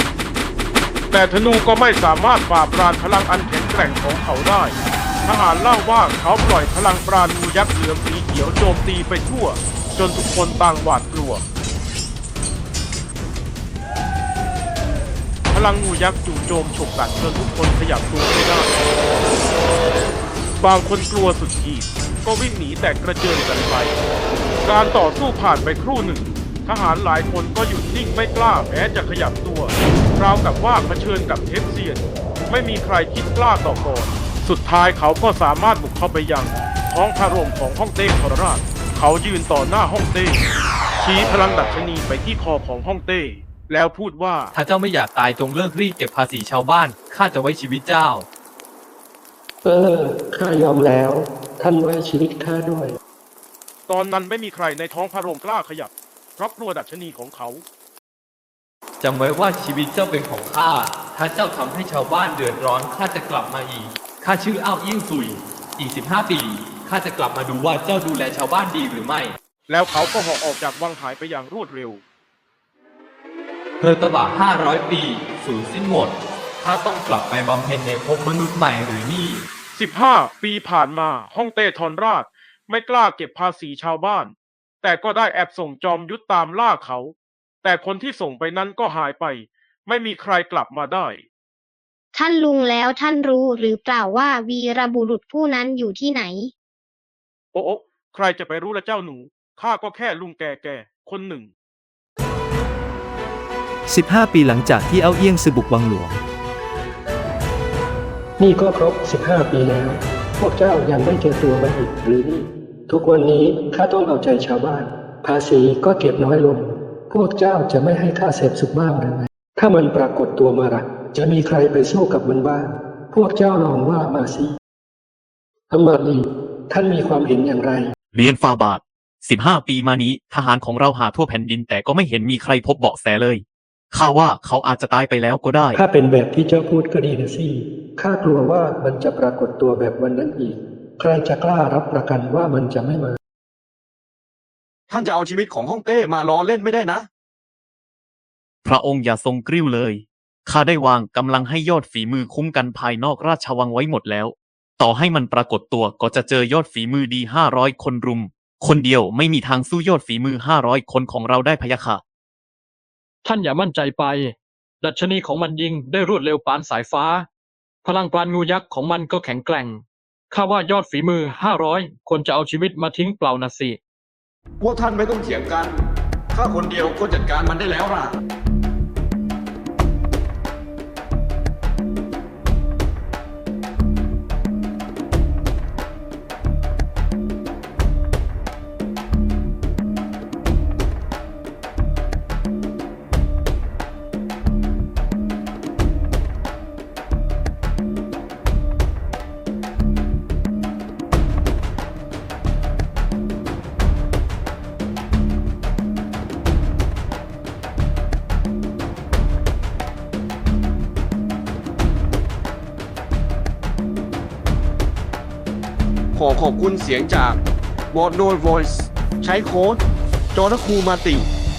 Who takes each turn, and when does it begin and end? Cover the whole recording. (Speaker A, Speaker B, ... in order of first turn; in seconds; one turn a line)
Speaker A: 1.1-11.4
Speaker A: 15.5-18.8
Speaker A: 20.6-24.0
Speaker A: 24.6-40.4
Speaker A: 41.0-44.5
Speaker B: 44.5-48.2
Speaker C: 49.6-53.0
Speaker A: 53.9-57.6
Speaker B: 59.0-69.3
Speaker A: 69.7-72.0
Speaker B: 73.8-79.4
Speaker A: 79.7-91.2
Speaker D: 92.1-96.5
Speaker A: 97.5-101.5
Speaker E: 103.9-106.2
Speaker C: 108.4-124.5
Speaker C: 125.7-127.9
Speaker F: 128.1-135.8
Speaker C: 135.7-143.2
Speaker G: 144.9-147.1
Speaker F: 148.6-162.0
Speaker H: 163.2-167.3
Speaker H: 167.8-173.8
Speaker G: 174.6-178.1
Speaker G: 216.1-217.4
Speaker G: 217.9-219.8
Speaker G: 220.3-221.3